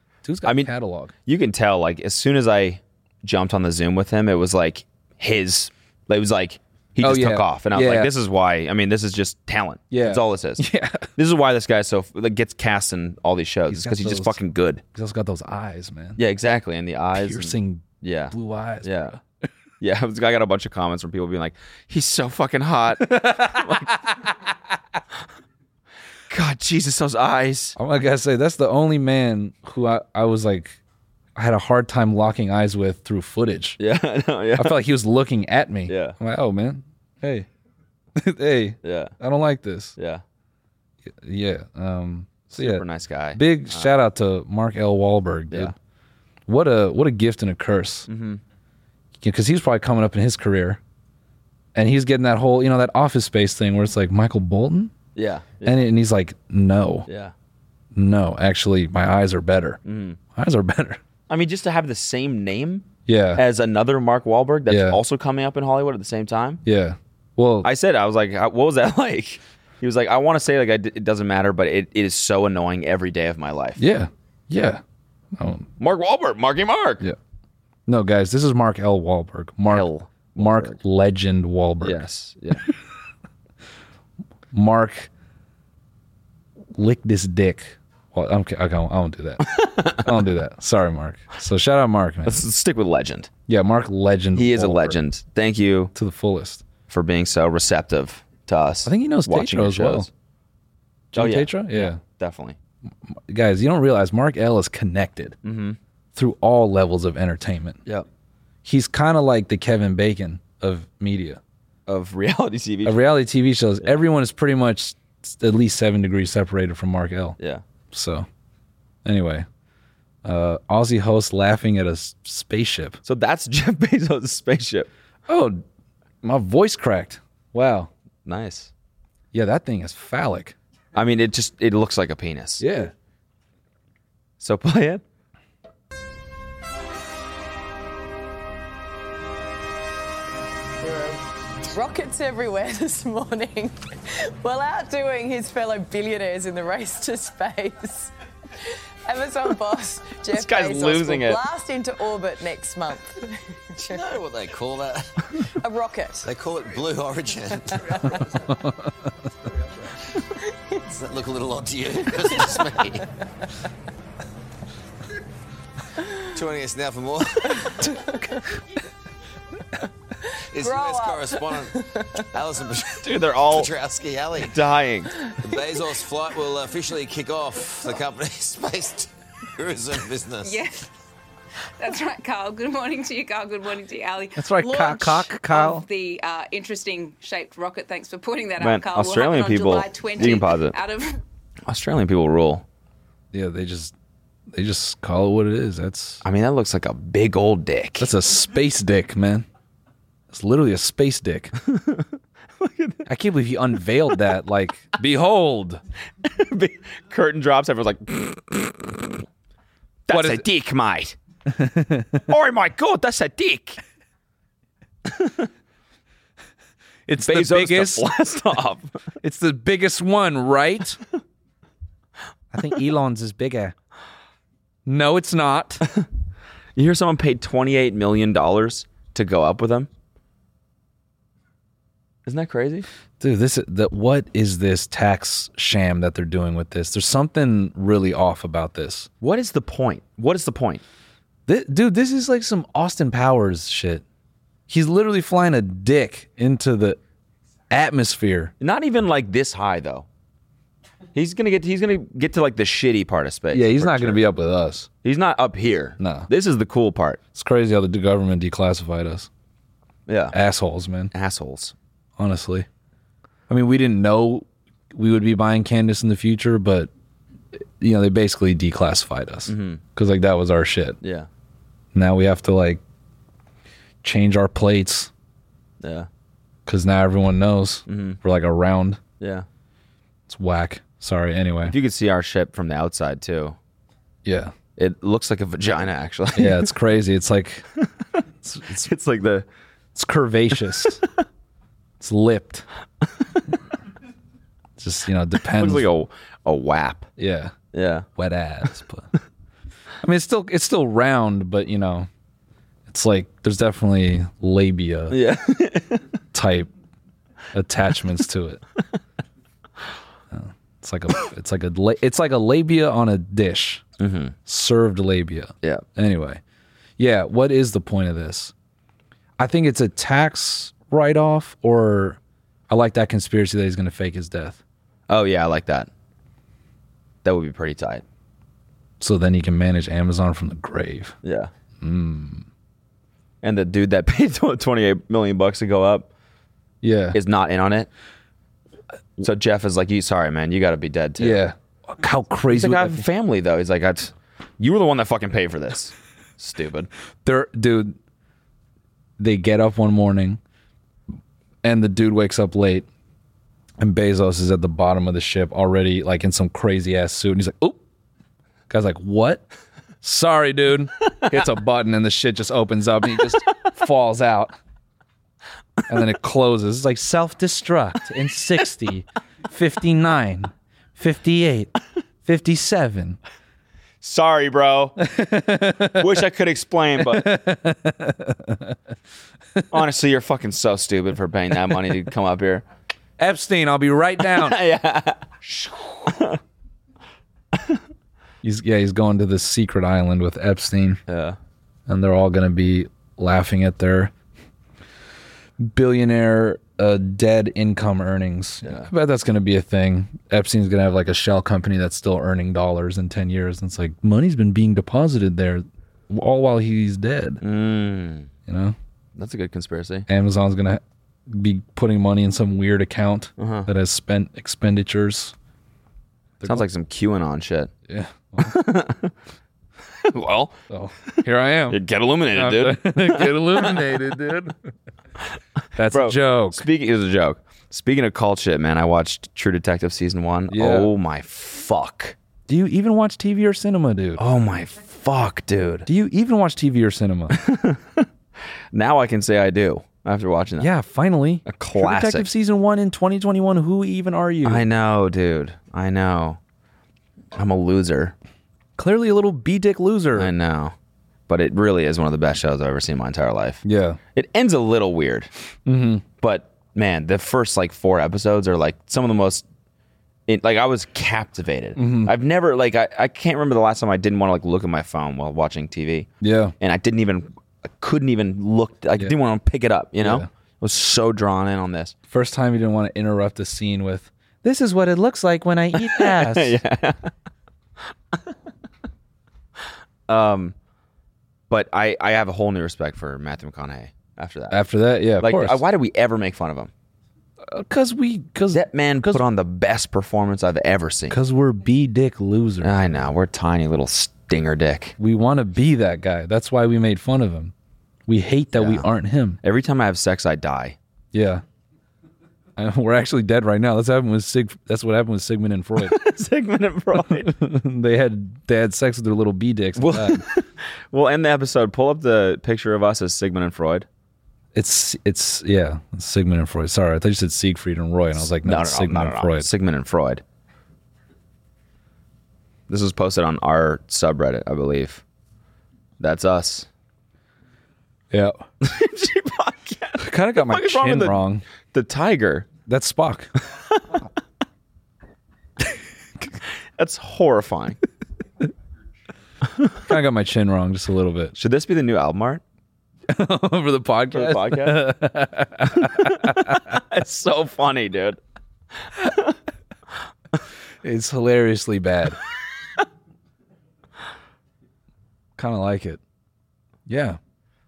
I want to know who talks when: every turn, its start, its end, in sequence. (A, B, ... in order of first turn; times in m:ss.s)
0:00.2-0:01.1 A
0:00.4-0:00.7 B
0:01.2-0:10.6 B
0:07.0-0:08.1 A
0:09.9-0:11.1 A
0:11.2-0:14.8 B
0:13.7-0:14.4 A
0:14.9-0:16.2 A
0:16.2-0:19.1 B
0:17.1-0:19.2 A
0:19.8-0:23.9 B
0:23.0-0:24.2 A
0:26.3-0:27.8 B
0:27.8-0:30.8 A
0:31.4-0:33.8 A
0:33.8-0:34.8 B
0:34.6-0:37.5 A
0:35.9-0:36.2 B
0:38.2-0:40.0 A
0:38.8-0:39.1 B
0:40.0-0:40.2 B
0:41.0-0:45.7 A
0:42.5-0:43.9 B
0:46.5-0:48.1 A
0:48.1-0:48.4 B
0:49.2-0:50.8 A
0:51.7-0:54.9 A
0:55.2-0:55.8 B
0:55.6-0:57.1 A
0:57.1-0:57.3 B
0:57.9-0:59.8 A
0:59.8-1:00.2 B
1:00.4-1:01.0 A
1:01.3-1:06.6 B
1:03.1-1:03.4 A
1:04.7-1:05.0 A
1:06.6-1:07.7 A
1:07.6-1:13.8 B
1:13.8-1:14.8 A
1:15.4-1:15.7 A
1:15.8-1:17.0 B
1:17.9-1:22.0 A
1:19.7-1:20.8 B
1:21.8-1:22.6 B
1:24.5-1:25.1 A
1:26.8-1:32.4 A
1:29.5-1:30.1 B
1:32.2-1:33.3 B
1:33.5-1:35.0 A
1:34.4-1:35.9 B
1:35.9-1:36.6 A
1:36.9-1:40.1 B
1:38.8-1:40.1 A
1:41.1-1:42.0 A
1:41.1-1:42.6 B
1:43.3-1:45.4 A
1:45.4-1:45.8 B
1:46.2-1:47.8 A
1:48.6-1:51.4 A
1:51.9-1:53.0 B
1:52.8-1:57.4 A
1:57.9-1:58.3 A
1:59.0-1:59.4 A
2:00.2-2:03.0 A
2:03.0-2:04.9 B
2:05.3-2:05.6 A
2:06.2-2:07.9 A
2:08.2-2:08.7 B
2:09.3-2:10.5 A
2:10.9-2:12.6 B
2:12.6-2:12.9 A
2:14.4-2:15.0 B
2:20.8-2:28.1 C
2:29.0-2:33.2 C
2:30.3-2:31.4 B
2:33.8-2:34.0 C
2:33.8-2:35.1 D
2:35.6-2:36.3 C
2:36.2-2:38.2 D
2:38.5-2:38.9 A
2:40.9-2:43.0 D
2:42.3-2:42.6 C
2:46.3-2:47.9 D
2:47.7-2:48.4 C
2:50.5-2:51.8 D
2:50.6-2:52.2 C
2:52.3-2:54.6 D
2:53.0-2:53.7 B
2:54.4-2:55.1 B
2:55.4-3:00.6 D
3:00.4-3:00.9 E
3:01.8-3:11.2 E
3:04.4-3:05.8 A
3:08.6-3:10.8 B
3:11.7-3:12.6 B
3:13.3-3:13.9 A
3:14.5-3:16.2 A
3:16.2-3:18.1 B
3:18.0-3:19.4 A
3:20.3-3:21.5 A
3:21.6-3:22.0 B
3:22.6-3:23.1 B
3:23.0-3:25.8 A
3:26.2-3:29.2 B
3:30.1-3:31.2 B
3:30.1-3:30.4 A
3:31.5-3:32.2 A
3:32.3-3:33.8 B
3:35.0-3:35.5 B
3:37.1-3:38.1 A
3:37.2-3:38.9 B
3:39.2-3:41.0 A
3:42.5-3:43.7 A
3:44.8-3:45.9 A
3:46.8-3:49.9 B
3:52.2-3:52.9 B
3:53.2-3:59.1 A
3:59.2-4:00.8 B
4:01.5-4:04.0 A
4:04.7-4:07.0 A
4:07.7-4:08.5 A
4:08.6-4:10.0 B
4:11.1-4:14.2 B
4:13.5-4:14.9 A
4:15.0-4:17.2 B
4:16.0-4:16.3 A
4:17.3-4:19.3 A
4:20.1-4:20.4 B
4:20.3-4:21.1 A
4:21.1-4:21.7 B
4:22.2-4:22.7 A
4:23.5-4:26.9 A
4:27.8-4:31.0 A
4:29.5-4:29.8 B
4:31.0-4:31.3 B
4:31.9-4:32.8 A
4:34.0-4:35.1 A
4:35.8-4:36.1 B
4:36.6-4:39.0 A
4:37.9-4:38.2 B
4:39.2-4:39.4 B
4:40.3-4:41.7 A
4:41.7-4:43.6 B
4:44.2-4:44.5 A
4:44.8-4:46.7 B
4:46.4-4:47.7 A
4:48.4-4:48.9 A
4:48.8-4:49.4 B
4:49.9-4:51.0 A
4:52.0-4:52.6 A
4:54.8-4:55.9 A
4:55.5-4:57.1 B
4:57.2-4:57.5 A
4:57.7-4:58.0 B
4:58.2-4:59.1 A
5:00.0-5:02.1 A
5:02.9-5:05.2 A
5:05.1-5:06.0 B
5:06.3-5:06.7 A
5:07.5-5:08.6 A
5:10.3-5:13.8 A
5:14.0-5:14.3 B
5:14.4-5:16.4 A
5:17.0-5:18.5 A
5:19.4-5:24.6 A
5:25.1-5:25.9 B
5:27.2-5:28.0 B
5:29.0-5:31.2 A
5:31.2-5:31.5 B
5:31.8-5:32.4 A
5:33.4-5:36.1 B
5:36.8-5:37.2 A
5:37.1-5:37.9 B
5:39.2-5:41.4 B
5:41.2-5:43.0 A
5:42.5-5:46.9 B
5:47.2-5:48.0 A
5:49.2-5:50.4 A
5:51.6-5:52.9 A
5:53.8-5:57.8 A
5:58.7-5:59.4 A
6:00.0-6:04.5 A
6:05.9-6:11.7 A
6:12.2-6:13.2 A
6:14.0-6:15.0 B
6:15.0-6:16.1 A
6:16.0-6:17.4 B
6:17.0-6:18.8 A
6:19.7-6:22.6 B
6:23.2-6:24.6 A
6:24.3-6:26.4 B
6:28.4-6:31.0 A
6:31.1-6:31.4 B
6:31.9-6:34.1 A
6:35.6-6:47.4 A
6:47.4-6:48.3 B
6:48.5-6:48.8 A
6:49.2-6:50.1 B
6:50.1-6:55.3 A
6:53.4-6:53.7 B
6:56.4-6:56.7 A
6:56.4-6:57.7 B
6:57.9-6:58.6 A
6:58.4-6:59.1 B
7:00.0-7:00.6 B
7:00.7-7:01.8 A
7:01.7-7:03.9 B
7:02.3-7:04.6 A
7:05.7-7:06.6 A
7:05.9-7:12.2 B
7:10.5-7:10.9 A
7:12.5-7:14.2 A
7:14.2-7:15.9 B
7:15.8-7:17.4 A
7:17.3-7:18.0 B
7:18.7-7:20.7 B
7:20.6-7:24.6 A
7:21.4-7:22.3 B
7:24.4-7:26.4 B
7:27.3-7:28.1 B
7:28.8-7:30.3 A
7:30.2-7:30.7 B
7:31.3-7:33.6 B
7:33.6-7:34.0 A
7:34.1-7:35.3 B
7:35.6-7:36.0 A
7:36.2-7:39.4 B
7:40.3-7:46.1 B
7:41.8-7:42.1 A
7:46.2-7:46.5 A
7:46.6-7:51.9 B
7:50.0-7:50.3 A
7:52.1-7:56.6 A
7:55.8-7:57.1 B
8:00.1-8:00.5 B
8:01.5-8:04.6 B
8:04.5-8:05.6 A
8:05.2-8:06.7 B
8:07.4-8:09.2 A
8:08.5-8:11.2 B
8:11.1-8:13.0 A
8:12.6-8:14.9 B
8:15.0-8:17.5 A
8:18.1-8:19.4 A
8:18.6-8:18.9 B
8:19.4-8:20.8 B
8:21.1-8:21.4 A
8:22.6-8:26.0 A
8:25.8-8:27.3 B
8:27.1-8:30.2 A
8:29.8-8:33.8 B
8:34.5-8:39.5 A
8:38.2-8:40.2 B
8:42.7-8:45.0 B
8:46.0-8:46.7 B
8:48.1-8:48.4 A
8:48.6-8:51.2 B
8:50.0-8:51.4 A
8:51.7-8:52.5 B
8:52.6-8:53.3 A
8:56.8-8:57.8 B
8:59.8-9:01.3 A
9:01.4-9:02.4 B
9:03.1-9:06.8 A
9:04.1-9:04.8 B
9:06.0-9:08.2 B
9:10.8-9:12.2 A
9:15.4-9:16.0 A
9:16.9-9:17.2 A